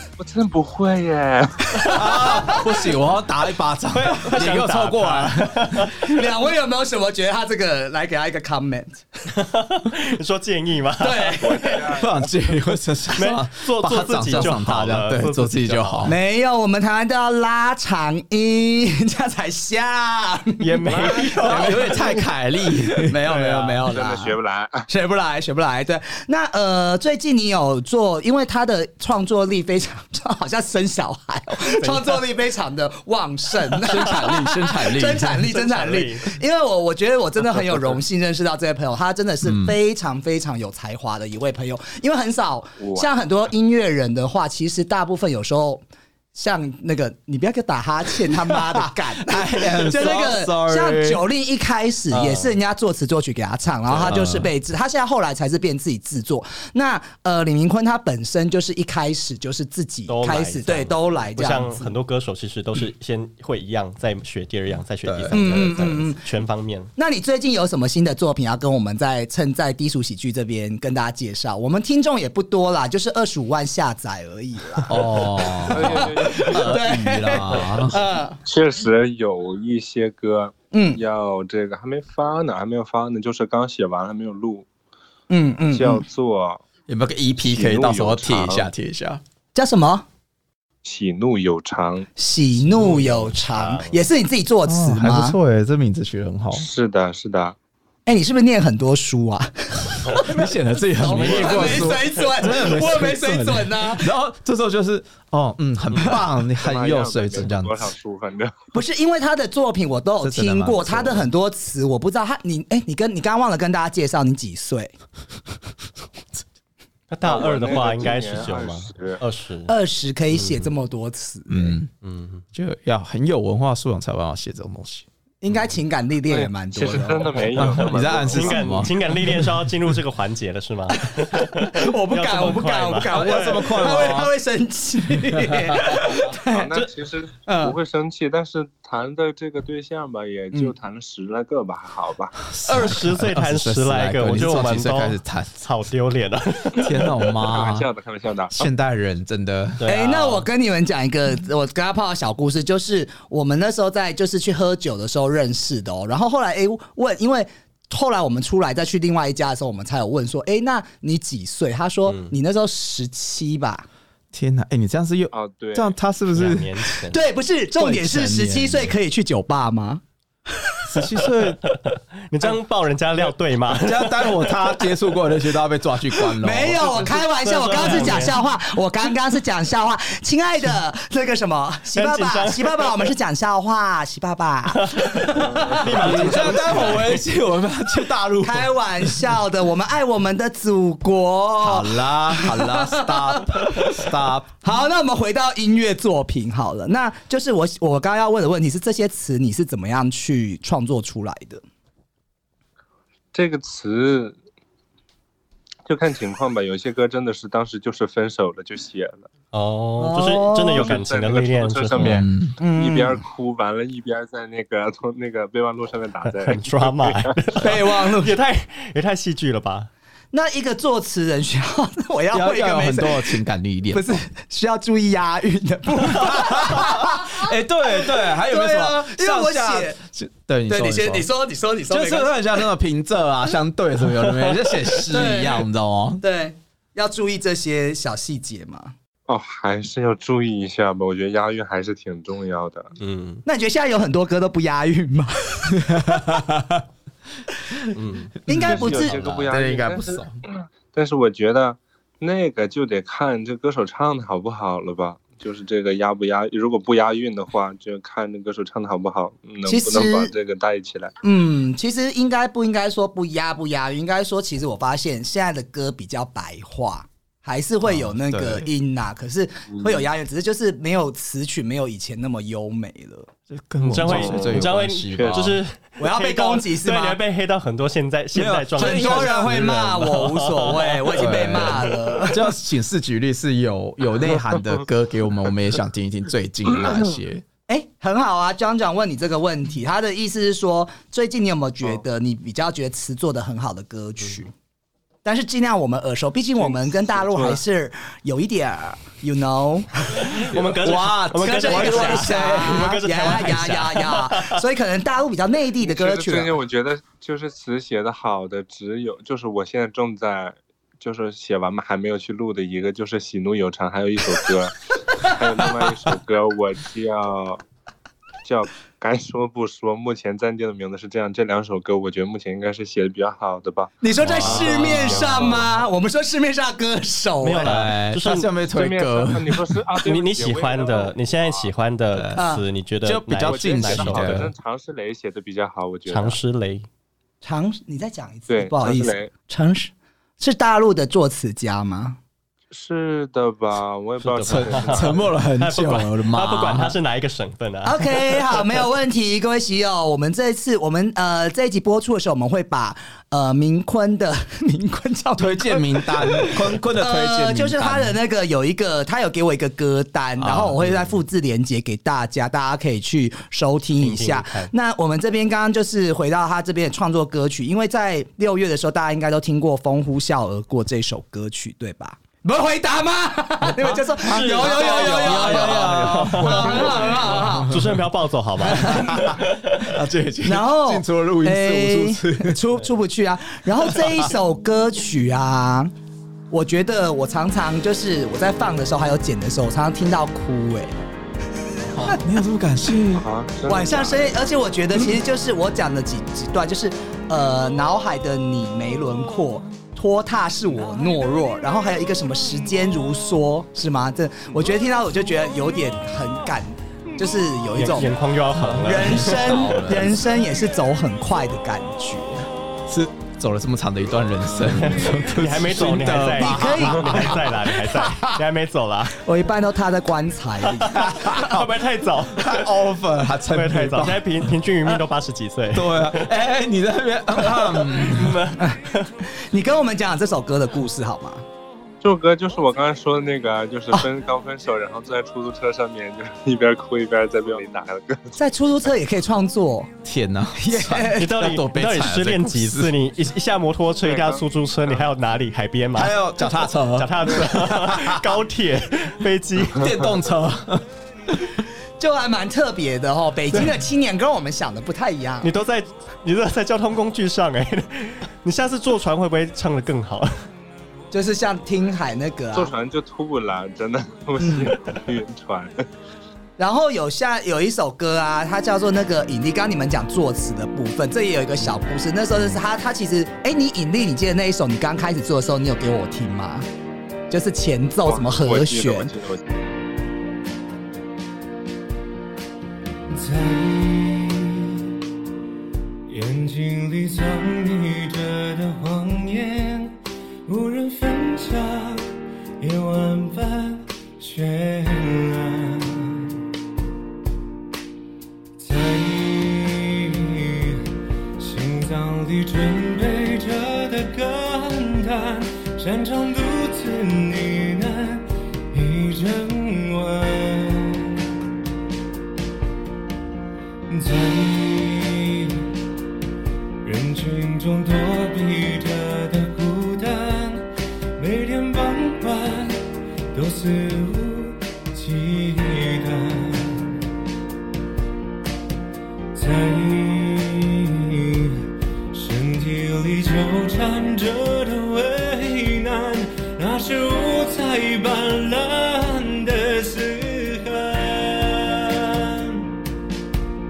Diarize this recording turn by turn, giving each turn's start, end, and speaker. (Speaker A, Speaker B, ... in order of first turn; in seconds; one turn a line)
Speaker A: 0.2-1.7
Speaker B: 1.8-2.7
Speaker C: 1.9-5.7
Speaker B: 3.9-6.1
Speaker D: 6.0-9.0
Speaker B: 9.3-11.4
Speaker D: 11.0-11.9
Speaker A: 11.4-12.5
Speaker C: 11.9-16.2
Speaker B: 13.2-16.1
Speaker D: 16.0-22.1
Speaker B: 20.6-22.1
Speaker C: 21.1-23.2
Speaker D: 23.0-24.4
Speaker B: 23.2-23.8
Speaker A: 23.9-24.9
Speaker D: 24.9-45.8
Speaker B: 31.6-32.2
Speaker C: 33.8-35.5
Speaker B: 35.4-36.3
Speaker C: 39.4-39.8
Speaker A: 42.8-43.1
Speaker D: 46.3-61.9
Speaker C: 48.2-51.2
Speaker B: 52.1-52.6
Speaker C: 54.0-54.5
Speaker B: 60.1-66.9
Speaker C: 65.0-66.0
Speaker D: 65.3-66.2
Speaker D: 67.0-78.4
Speaker C: 74.8-78.0
Speaker A: 75.7-76.9
Speaker A: 78.5-84.7
Speaker D: 80.7-81.0
Speaker D: 85.3-86.0
Speaker A: 85.7-86.6
Speaker C: 86.9-89.2
Speaker A: 87.4-88.7
Speaker D: 89.5-90.0
Speaker A: 90.8-92.1
Speaker D: 92.2-95.4
Speaker B: 92.5-94.0
Speaker C: 94.7-96.7
Speaker A: 96.5-97.5
Speaker D: 98.0-104.1
Speaker C: 100.1-107.9
Speaker B: 101.0-102.2
Speaker A: 106.6-108.5
Speaker D: 108.7-114.9
Speaker C: 110.2-111.3
Speaker B: 117.1-119.7
Speaker A: 117.2-119.2
Speaker D: 119.7-121.8
Speaker B: 120.3-120.7
Speaker C: 121.5-121.9
Speaker B: 122.0-122.4
Speaker C: 122.5-125.0
Speaker D: 125.4-127.6
Speaker A: 126.3-128.9
Speaker C: 127.6-128.9
Speaker B: 128.3-133.8
Speaker D: 131.1-136.7
Speaker C: 133.1-134.3
Speaker C: 135.3-136.0
Speaker A: 135.9-142.4
Speaker D: 137.5-137.8
Speaker C: 142.5-145.6
Speaker B: 142.7-147.2
Speaker C: 146.8-147.9
Speaker A: 147.3-148.7
Speaker C: 148.5-149.9
Speaker B: 149.8-150.4
Speaker D: 149.8-163.8
Speaker B: 162.1-162.3
Speaker C: 164.3-166.8
Speaker A: 165.3-165.9
Speaker B: 166.3-167.2
Speaker D: 167.1-170.8
Speaker C: 167.8-168.9
Speaker C: 170.9-171.6
Speaker B: 171.6-174.7
Speaker C: 173.7-177.1
Speaker D: 176.4-186.2
Speaker B: 177.0-178.3
Speaker C: 177.8-178.3
Speaker B: 181.9-182.9
Speaker B: 184.7-187.2
Speaker A: 185.4-186.9
Speaker C: 185.9-189.4
Speaker D: 188.4-194.1
Speaker C: 191.6-194.5
Speaker D: 194.6-201.6
Speaker A: 203.3-204.4
Speaker A: 205.8-209.3
Speaker B: 209.5-212.2
Speaker D: 210.0-211.0
Speaker A: 210.8-217.3
Speaker C: 212.0-212.5
Speaker D: 212.6-213.2
Speaker B: 216.2-219.9
Speaker D: 217.6-218.3
Speaker D: 220.3-223.4
Speaker C: 222.3-224.2
Speaker D: 223.9-230.0
Speaker C: 226.1-231.3
Speaker D: 230.7-232.6
Speaker C: 231.9-236.2
Speaker B: 234.3-235.1
Speaker D: 235.1-235.7
Speaker D: 236.2-238.9
Speaker A: 239.3-242.9
Speaker B: 243.0-243.4
Speaker D: 243.4-246.6
Speaker C: 245.9-246.6
Speaker B: 247.9-248.3
Speaker D: 248.5-249.2
Speaker C: 248.5-250.4
Speaker A: 248.5-261.1
Speaker D: 259.6-260.3
Speaker D: 261.2-273.3
Speaker C: 267.8-268.7
Speaker A: 269.7-270.1
Speaker C: 273.5-275.6
Speaker B: 273.8-281.9
Speaker A: 274.0-275.4
Speaker D: 276.0-277.2
Speaker C: 278.3-279.9
Speaker D: 278.8-282.6
Speaker C: 281.1-287.4
Speaker A: 284.3-284.8
Speaker D: 287.7-294.5
Speaker D: 295.2-300.4
Speaker A: 296.6-297.6
Speaker B: 300.2-304.6
Speaker C: 300.8-303.4
Speaker D: 301.4-306.6
Speaker A: 305.8-317.6
Speaker A: 318.4-325.7
Speaker D: 324.0-327.8
Speaker C: 324.2-325.6
Speaker B: 324.2-325.3
Speaker B: 327.4-328.5
Speaker C: 327.6-329.8
Speaker A: 328.7-331.7
Speaker B: 330.0-334.5
Speaker C: 332.1-332.5
Speaker D: 332.4-332.6
Speaker C: 333.0-334.5
Speaker A: 333.4-336.4
Speaker B: 336.1-336.9
Speaker D: 337.4-342.2
Speaker A: 338.5-339.3
Speaker A: 342.7-345.3
Speaker B: 344.2-348.7
Speaker C: 344.4-346.9
Speaker D: 347.8-377.7
Speaker C: 355.4-358.1
Speaker C: 360.4-360.8
Speaker B: 360.5-361.1
Speaker B: 364.0-364.7
Speaker B: 373.8-379.9
Speaker C: 374.2-378.0
Speaker D: 378.6-379.4
Speaker C: 378.7-382.6
Speaker D: 380.4-385.9
Speaker C: 383.8-384.3
Speaker D: 386.5-391.0
Speaker C: 391.9-393.3
Speaker A: 393.1-394.3
Speaker D: 393.7-408.1
Speaker B: 407.8-409.9
Speaker C: 408.5-410.2
Speaker D: 408.8-412.5
Speaker C: 412.9-417.4
Speaker B: 414.6-419.2
Speaker D: 416.4-418.4
Speaker D: 419.1-421.4
Speaker B: 420.8-422.7
Speaker C: 420.9-421.7
Speaker C: 422.3-424.5
Speaker B: 423.5-426.3
Speaker C: 425.7-428.5
Speaker B: 427.4-429.1
Speaker D: 428.6-431.4
Speaker A: 432.0-438.4
Speaker D: 438.4-439.9
Speaker C: 440.0-442.9
Speaker D: 440.6-441.3
Speaker B: 441.1-449.9
Speaker A: 444.0-445.1
Speaker C: 445.9-448.2
Speaker C: 449.6-450.8
Speaker D: 452.0-455.5
Speaker B: 455.4-460.3
Speaker D: 461.1-462.7
Speaker A: 462.5-465.7
Speaker D: 464.4-464.7
Speaker D: 466.6-476.6
Speaker D: 477.3-479.1
Speaker A: 478.0-479.4
Speaker E: 483.1-484.9
Speaker E: 486.1-496.3
Speaker E: 498.6-500.8
Speaker E: 501.4-511.2
Speaker E: 513.9-515.7
Speaker E: 516.8-527.0
Speaker E: 529.3-542.8